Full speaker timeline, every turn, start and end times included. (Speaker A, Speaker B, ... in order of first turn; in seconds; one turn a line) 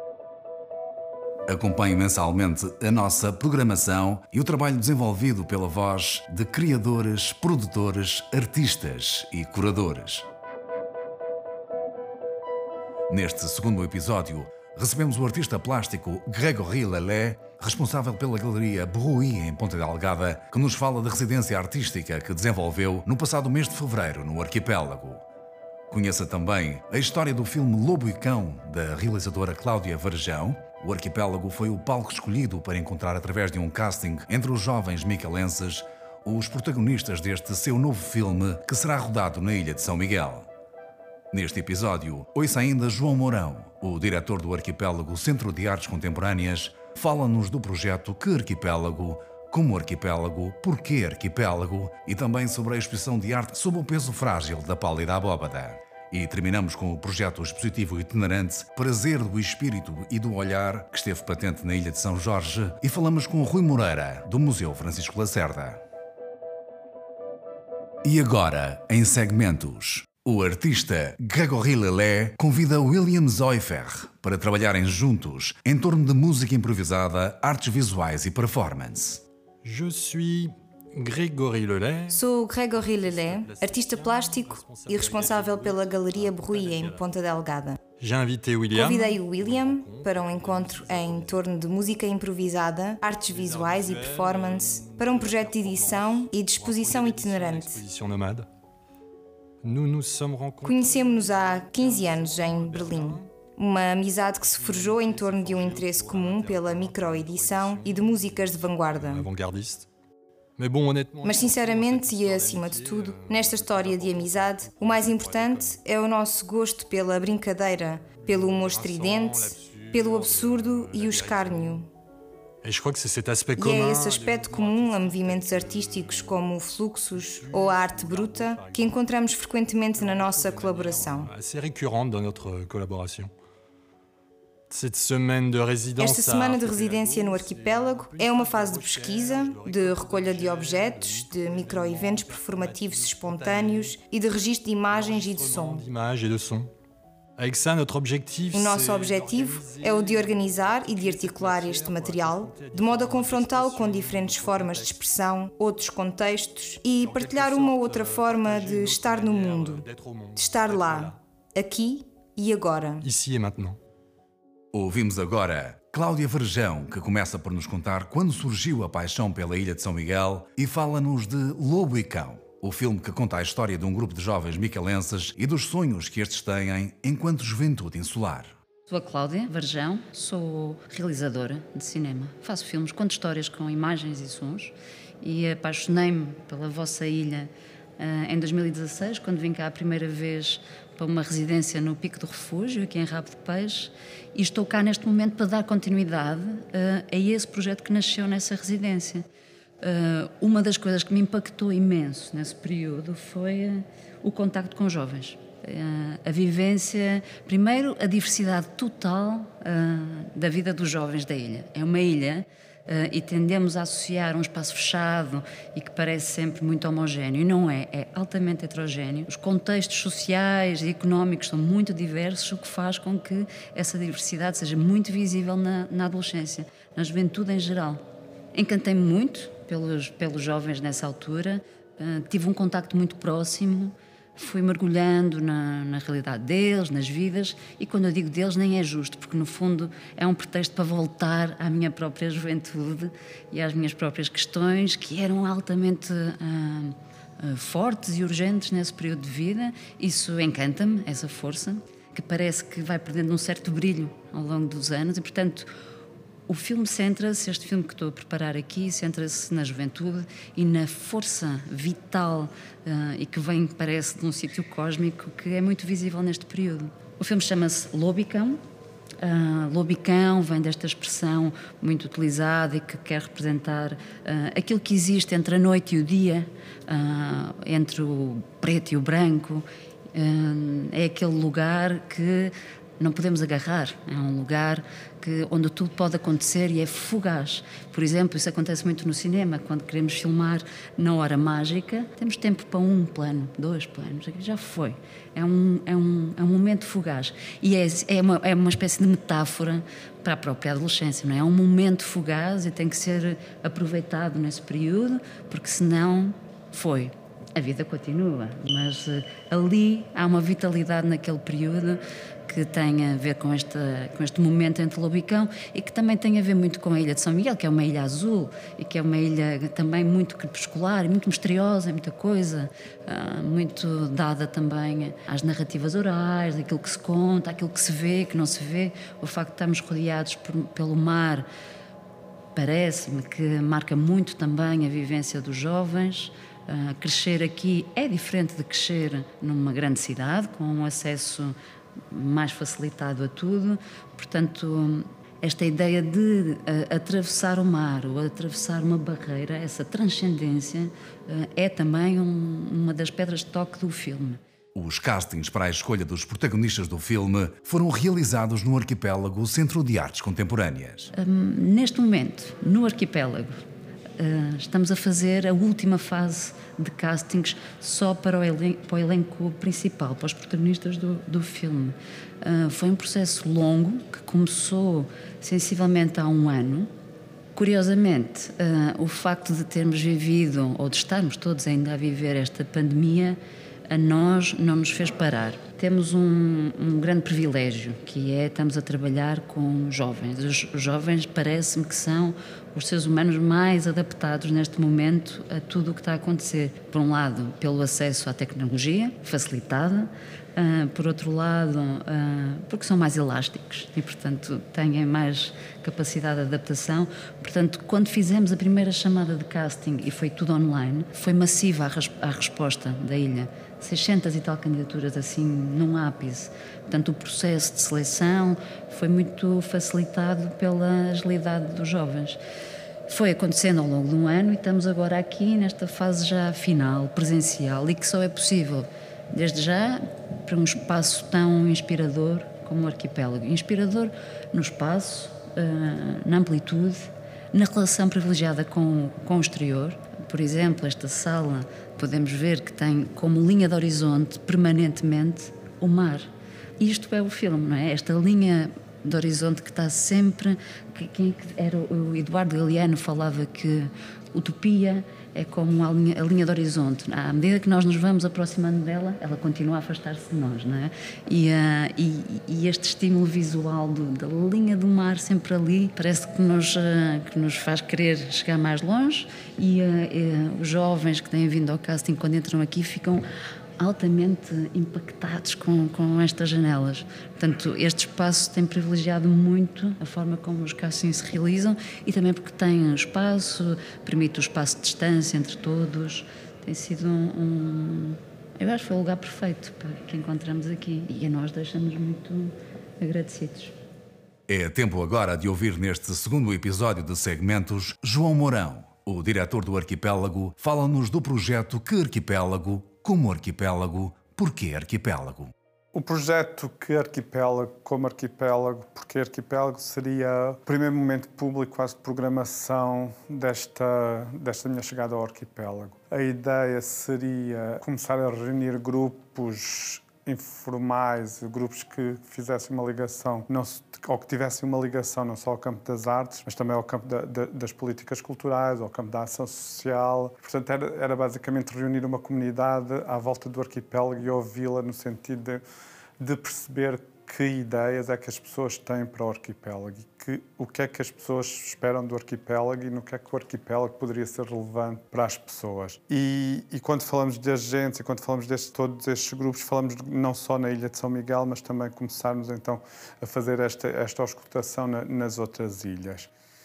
Speaker A: 1.5-10.3
Speaker A: 13.1-25.2
Speaker A: 25.9-40.5
Speaker A: 41.3-65.8
Speaker A: 68.0-79.2
Speaker B: 79.6-87.2
Speaker C: 82.1-87.8
Speaker B: 88.0-91.5
Speaker C: 88.7-97.8
Speaker B: 93.3-98.5
Speaker B: 99.6-103.3
Speaker C: 100.6-109.3
Speaker B: 104.4-109.9
Speaker B: 110.6-115.8
Speaker C: 111.2-121.9
Speaker B: 118.1-121.8
Speaker B: 122.6-126.5
Speaker C: 123.6-131.3
Speaker B: 127.1-129.1
Speaker B: 129.9-133.3
Speaker B: 134.7-144.0
Speaker C: 136.0-145.8
Speaker B: 144.9-146.7
Speaker B: 147.4-155.1
Speaker C: 148.5-163.1
Speaker B: 156.9-161.2
Speaker B: 163.0-163.8
Speaker A: 164.7-178.6
Speaker D: 178.9-199.2
Speaker D: 199.8-228.0
Speaker D: 228.5-255.7
Speaker D: 256.5-268.6
Speaker D: 269.2-331.5
Speaker D: 332.6-341.6
Speaker D: 342.1-354.4
Speaker A: 354.8-361.1
Speaker D: 361.1-363.5
Speaker D: 364.2-376.9
Speaker D: 377.6-422.4
Speaker D: 423.1-473.2
Speaker D: 473.8-493.8
Speaker A: 494.5-505.5
Speaker E: 505.9-535.6
Speaker E: 536.2-556.3